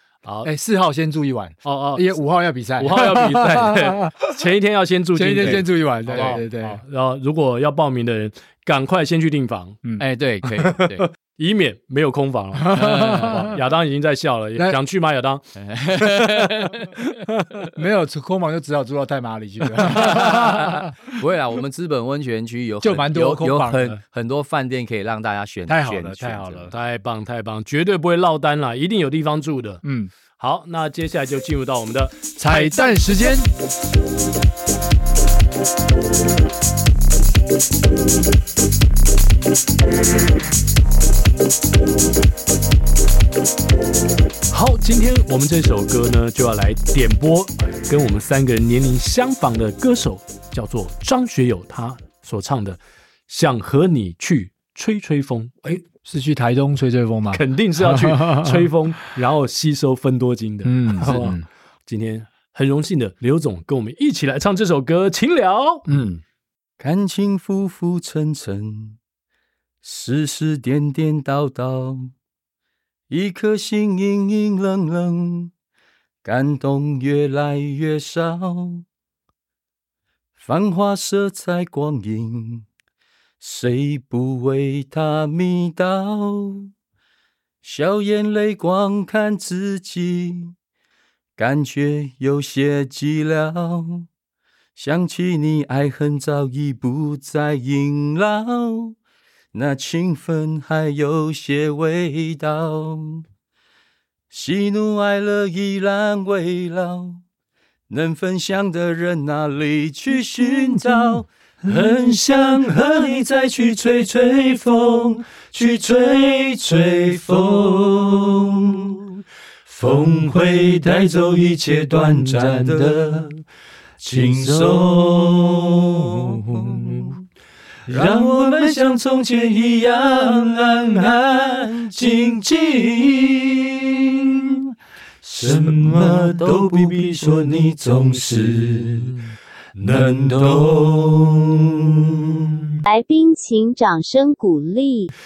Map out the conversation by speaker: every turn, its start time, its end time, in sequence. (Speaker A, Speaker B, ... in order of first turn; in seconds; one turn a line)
Speaker A: 0.4-4.3
Speaker B: 1.6-2.1
Speaker B: 2.8-9.8
Speaker A: 5.2-6.8
Speaker C: 10.0-11.1
Speaker B: 11.3-15.4
Speaker A: 12.6-13.6
Speaker C: 12.7-13.6
Speaker C: 15.6-17.0
Speaker B: 16.4-17.7
Speaker A: 17.7-20.9
Speaker C: 19.8-26.7
Speaker A: 22.8-24.0
Speaker A: 25.7-26.7
Speaker B: 26.7-29.8
Speaker A: 29.8-30.1
Speaker B: 30.4-33.1
Speaker A: 32.4-33.5
Speaker B: 44.5-55.5
Speaker A: 55.6-58.7
Speaker B: 57.3-65.9
Speaker A: 60.6-61.5
Speaker A: 65.9-66.2
Speaker C: 66.8-69.0
Speaker C: 69.8-72.1
Speaker C: 73.1-75.5
Speaker C: 76.2-78.8
Speaker C: 80.4-82.7
Speaker C: 83.4-86.7
Speaker C: 87.6-90.5
Speaker C: 91.4-94.1
Speaker C: 94.8-99.0
Speaker C: 99.5-103.2
Speaker C: 104.3-107.2
Speaker C: 107.9-123.4
Speaker C: 124.0-127.2
Speaker C: 127.9-142.8
Speaker D: 142.9-145.1